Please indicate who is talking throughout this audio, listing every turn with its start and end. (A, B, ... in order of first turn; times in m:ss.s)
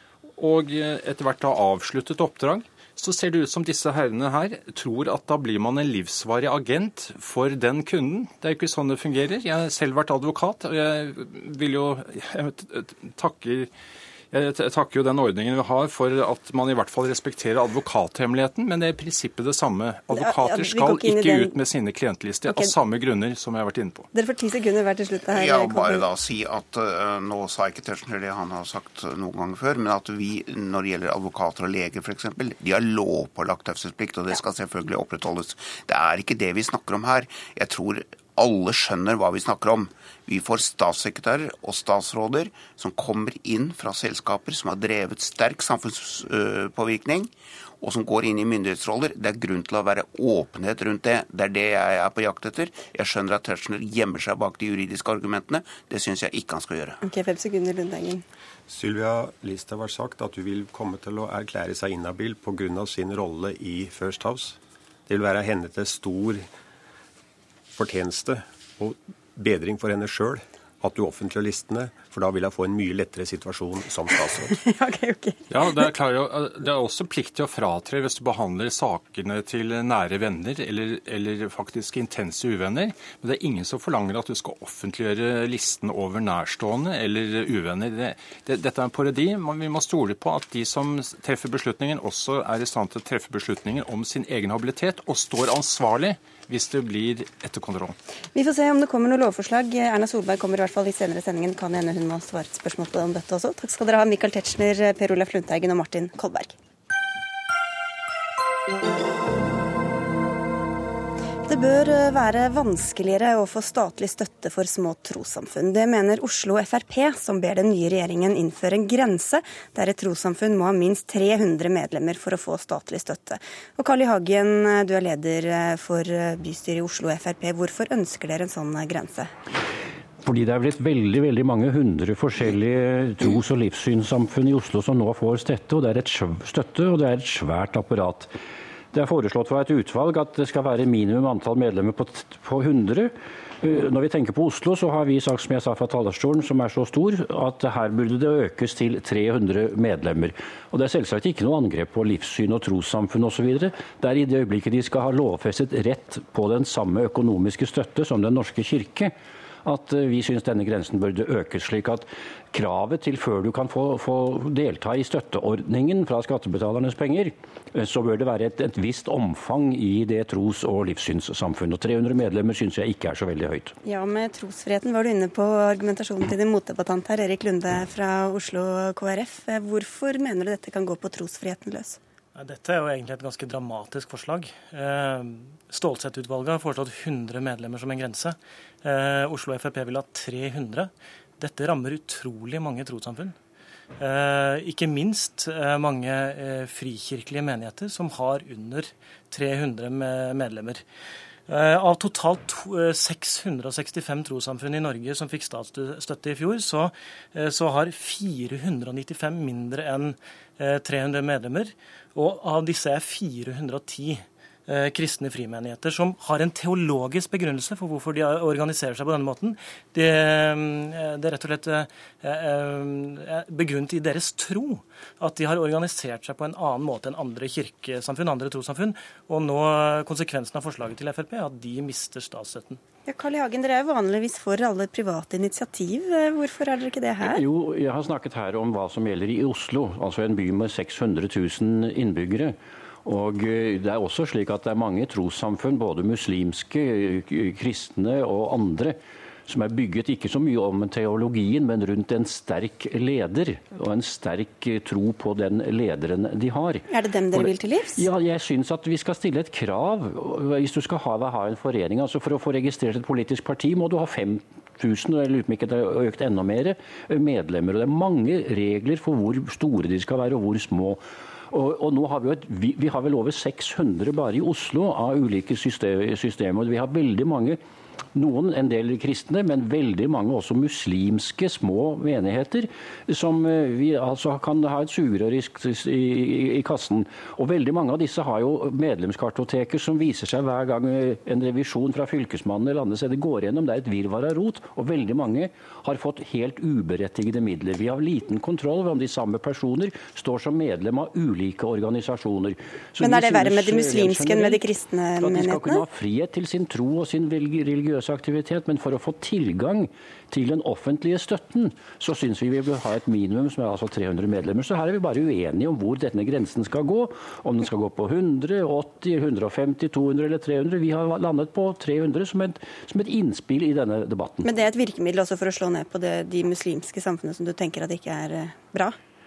0:00.4-0:13.7 A
0:14.3-0:24.1 A
0:20.1-0:21.6 B
0:24.1-0:26.1 B
0:25.3-0:57.0 C
0:57.0-0:58.2 B
0:58.7-1:06.5 D
1:07.8-1:14.6 D
1:14.6-1:15.5 B
1:15.5-1:38.0 A
1:38.3-1:46.6 B
1:51.4-2:09.3 B
2:10.2-2:18.3 E
2:18.9-2:53.7 E
2:53.8-3:02.0 B
3:02.4-3:13.4 F
3:14.0-3:20.8 F
3:21.5-3:52.8 F
3:53.1-3:57.4 B
3:57.2-4:37.6 E
4:16.9-4:18.0 B
4:38.1-5:04.6 E
5:03.0-5:05.8 B
5:05.2-5:24.5 E
5:24.4-5:29.0 B